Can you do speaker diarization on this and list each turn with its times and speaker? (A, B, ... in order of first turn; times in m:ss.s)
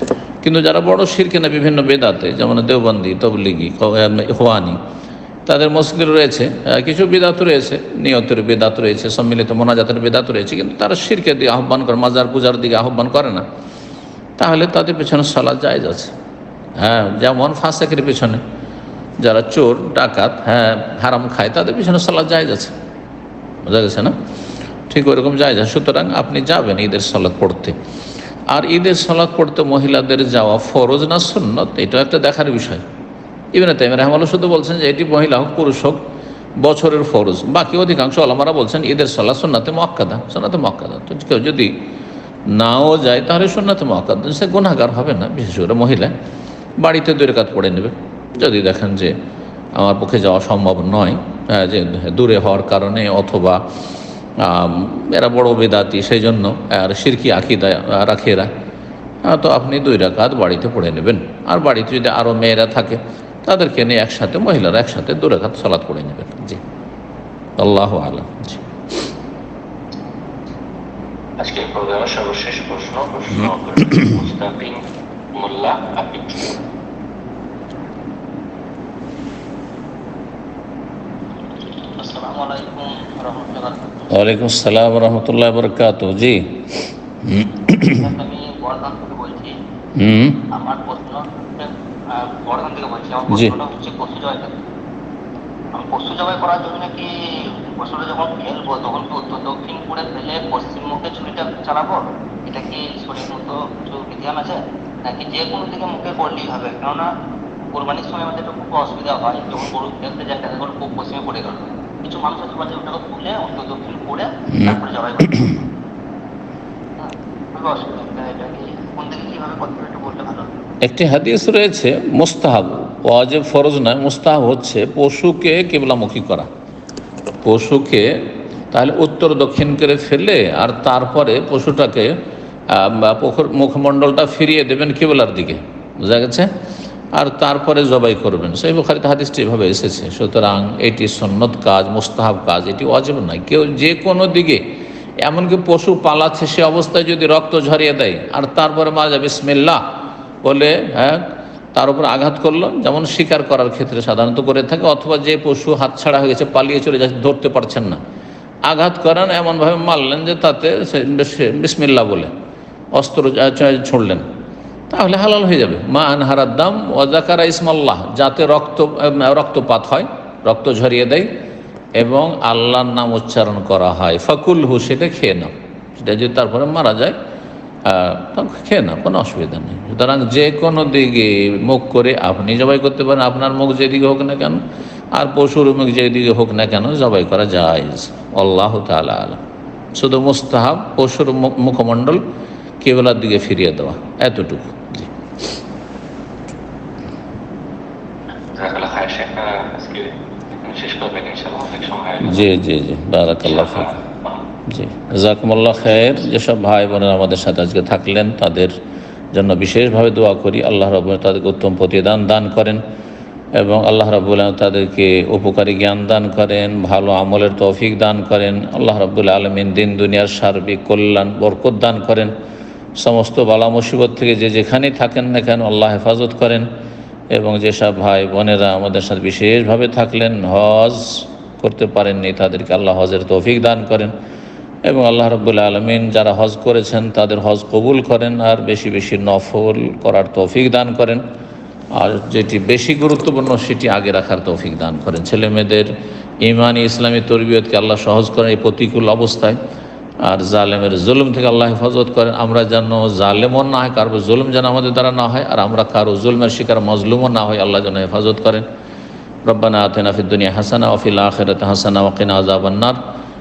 0:00.4-0:04.8 A
0:05.5-0:13.4 A
0:14.4-0:16.1 A
0:16.8-0:18.4 A
0:19.2-0:22.8 A
0:23.6-0:24.1 A
0:24.9-0:27.8 A
0:28.5-0:32.8 A
0:33.5-0:36.0 A
0:36.6-0:41.7 A
0:42.5-0:46.1 A
0:46.8-0:49.2 A
0:49.8-0:53.6 A
0:54.4-0:58.5 A
0:59.3-1:06.6 A
1:07.6-1:08.6 A
1:11.4-1:14.8 B
1:15.4-1:16.6 B
1:22.0-1:24.2 C
1:24.1-1:28.0 A
1:27.9-1:29.5 C
1:30.0-1:30.5 A
1:30.5-1:34.6 C
1:33.3-1:33.6 A
1:35.7-1:47.1 C
1:47.7-1:55.6 C
1:57.0-2:00.6 C
2:00.8-2:06.5 A
2:07.4-2:08.1 A
2:08.7-2:12.1 A
2:12.7-2:16.5 A
2:17.2-2:29.8 A
2:30.4-2:38.0 A
2:38.7-2:42.3 A
2:42.9-2:44.2 A
2:44.9-2:51.3 A
2:52.0-2:57.2 A
2:57.8-3:04.6 A
3:05.1-3:09.4 A
3:10.0-3:12.2 A
3:12.8-3:15.1 A
3:18.5-3:20.1 B
3:20.6-3:22.5 B
3:22.2-3:23.9 A
3:23.5-3:24.4 B
3:24.7-3:28.7 A
3:29.3-3:32.8 A
3:33.5-3:42.3 A
3:43.0-3:46.7 A
3:47.3-3:54.1 A
3:54.8-4:01.2 A
4:01.9-4:05.9 A
4:06.4-4:09.6 A
4:10.2-4:18.6 A
4:19.5-4:23.0 A